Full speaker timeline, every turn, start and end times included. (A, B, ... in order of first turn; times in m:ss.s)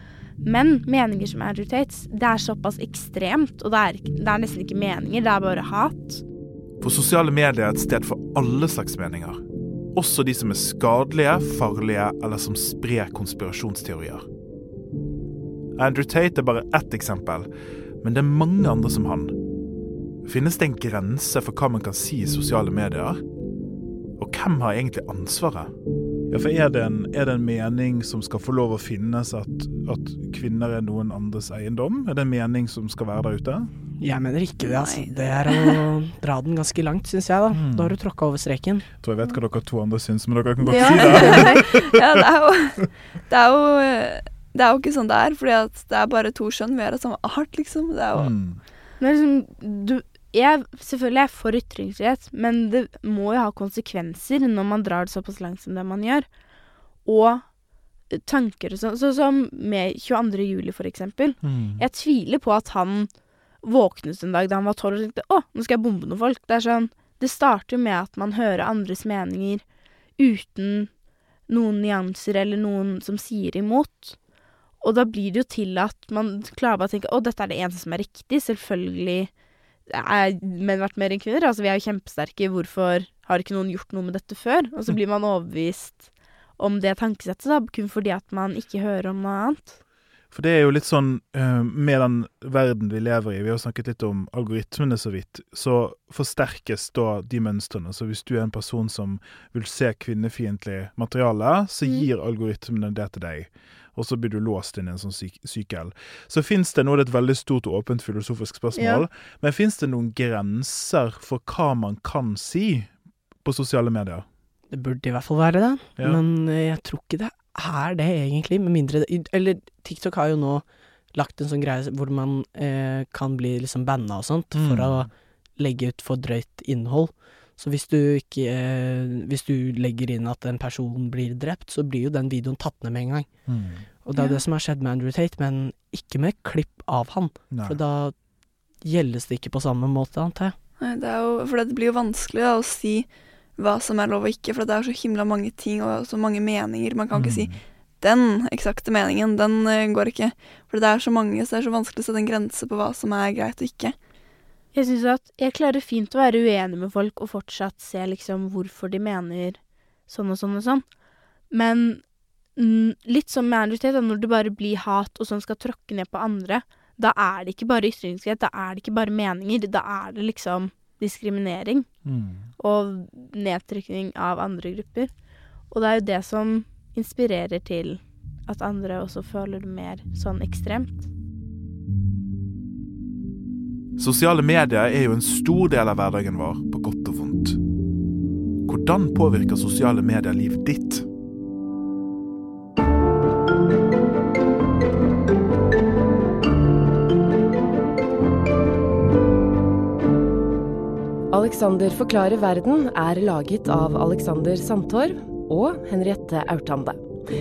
0:00.4-0:06.2 A
0:06.8-0:09.4 B
0:09.9-0:14.2 B
0:15.8-0:17.5 B
0:18.0-0:19.4 B
0:20.2-0:23.2 B
0:24.2-0:25.7 B
0:26.3-0:33.7 B
0:34.0-0:38.9 C
0:34.6-0:35.8 D
0:37.5-0:38.0 B
0:39.0-0:41.9 B
0:40.7-0:41.7 A
0:40.8-0:48.3 D
0:48.2-0:48.6 B
0:49.0-0:56.3 A
0:57.0-0:57.4 A
0:58.1-1:03.1 A
1:01.4-1:01.8 B
1:03.6-1:09.6 A
1:10.2-1:10.9 A
1:11.5-1:14.2 A
1:14.8-1:19.3 A
1:19.9-1:26.0 A
1:26.6-1:29.8 A
1:30.3-1:52.9 B
1:48.8-1:49.0 A
1:53.4-1:54.2 B
1:54.7-2:13.3 C
2:04.5-2:05.0 B
2:13.5-2:13.9 B
2:14.0-2:18.1 C
2:14.1-2:14.4 A
2:17.5-2:17.8 B
2:18.8-2:20.5 C
2:20.8-2:27.5 D
2:27.1-2:27.5 B
2:28.0-2:33.9 D
2:34.7-2:40.8 A
2:41.5-2:42.0 A
2:42.6-2:51.9 A
2:52.0-2:52.5 B
2:52.6-2:55.1 A
2:55.7-3:01.1 A
3:04.0-3:07.6 B
3:08.6-3:11.0 B
3:21.3-3:27.0 E